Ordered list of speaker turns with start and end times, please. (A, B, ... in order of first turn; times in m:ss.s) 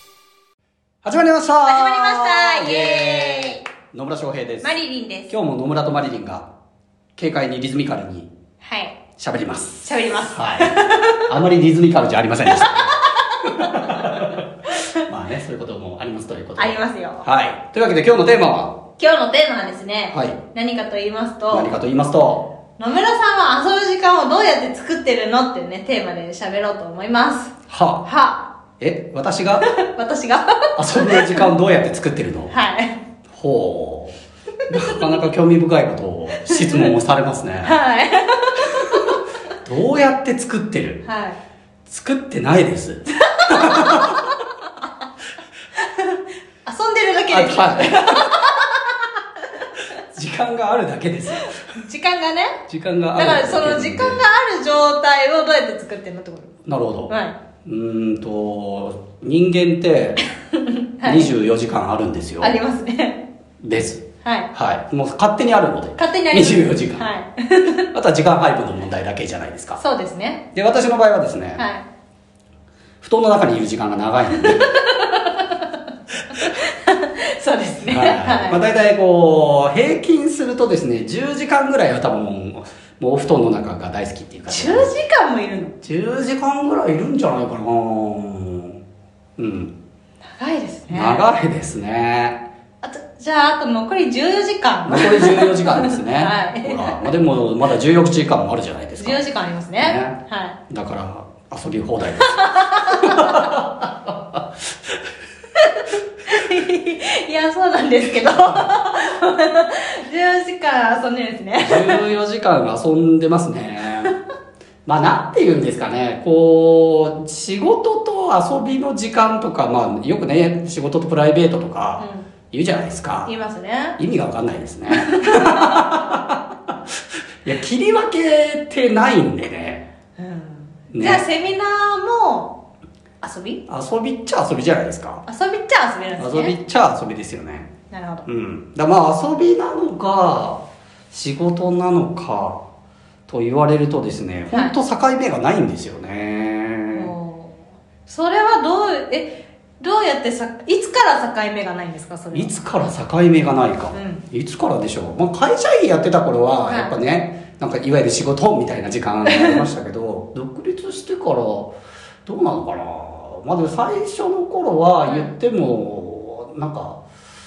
0:01.0-0:04.8 A
0:01.6-0:03.6 B
0:04.6-0:05.3 B
0:05.3-0:06.5 A
0:07.2-0:08.3 A
0:08.6-0:09.0 B
0:09.2-0:14.4 A
0:09.8-0:11.2 B
0:12.5-0:14.3 B
0:15.0-0:18.8 A
0:16.6-0:17.2 B
0:19.0-0:21.7 B
0:20.1-0:20.4 A
0:21.5-0:22.5 A
0:22.8-0:27.5 B
0:27.7-0:28.0 A
0:28.0-0:28.5 B
0:28.8-0:29.7 A
0:29.6-0:31.5 B
0:30.8-0:32.5 A
0:32.5-0:33.0 B
0:33.3-0:34.2 A
0:34.7-0:37.7 A
0:36.4-0:36.9 B
0:37.6-0:38.8 B
0:39.6-0:41.0 A
0:41.0-0:41.4 B
0:41.9-0:44.2 A
0:43.3-0:44.1 B
0:45.8-0:48.9 B
0:47.3-0:48.2 A
0:50.1-0:51.5 A
0:51.6-0:52.6 B
0:52.7-0:54.2 A
0:53.2-0:56.5 B
0:56.6-0:57.1 A
0:57.1-0:57.4 B
0:57.6-1:00.2 A
1:00.6-1:01.3 B
1:01.0-1:02.6 A
1:02.4-1:03.2 B
1:03.6-1:07.1 A
1:04.2-1:04.5 B
1:06.0-1:07.8 B
1:07.9-1:09.8 A
1:09.8-1:10.4 B
1:10.5-1:11.6 A
1:11.6-1:11.8 B
1:13.0-1:14.8 A
1:14.4-1:15.6 B
1:16.4-1:18.6 B
1:17.8-1:24.9 A
1:24.5-1:25.7 B
1:25.8-1:28.8 A
1:29.4-1:29.7 A
1:30.4-1:31.2 B
1:30.9-1:32.4 A
1:32.8-1:37.1 B
1:34.8-1:39.2 A
1:39.0-1:40.6 B
1:39.8-1:40.2 A
1:40.7-1:44.4 A
1:42.4-1:43.4 B
1:45.6-1:52.0 B
1:48.1-1:48.7 A
1:51.6-1:54.1 A
1:54.8-2:03.3 A
2:02.0-2:02.2 B
2:03.2-2:04.0 B
2:04.0-2:06.4 A
2:05.1-2:05.8 B
2:07.4-2:09.8 A
2:10.2-2:12.6 B
2:10.9-2:11.3 A
2:13.2-2:13.6 B
2:13.7-2:15.2 A
2:15.2-2:16.5 B
2:16.2-2:17.7 A
2:17.9-2:18.2 B
2:18.2-2:22.6 A
2:23.3-2:27.1 A
2:24.5-2:24.8 B
2:26.9-2:32.5 B
2:32.3-2:41.7 A
2:33.9-2:34.2 B
2:36.7-2:36.9 B
2:39.3-2:39.6 B
2:42.2-2:47.0 A
2:45.0-2:45.3 B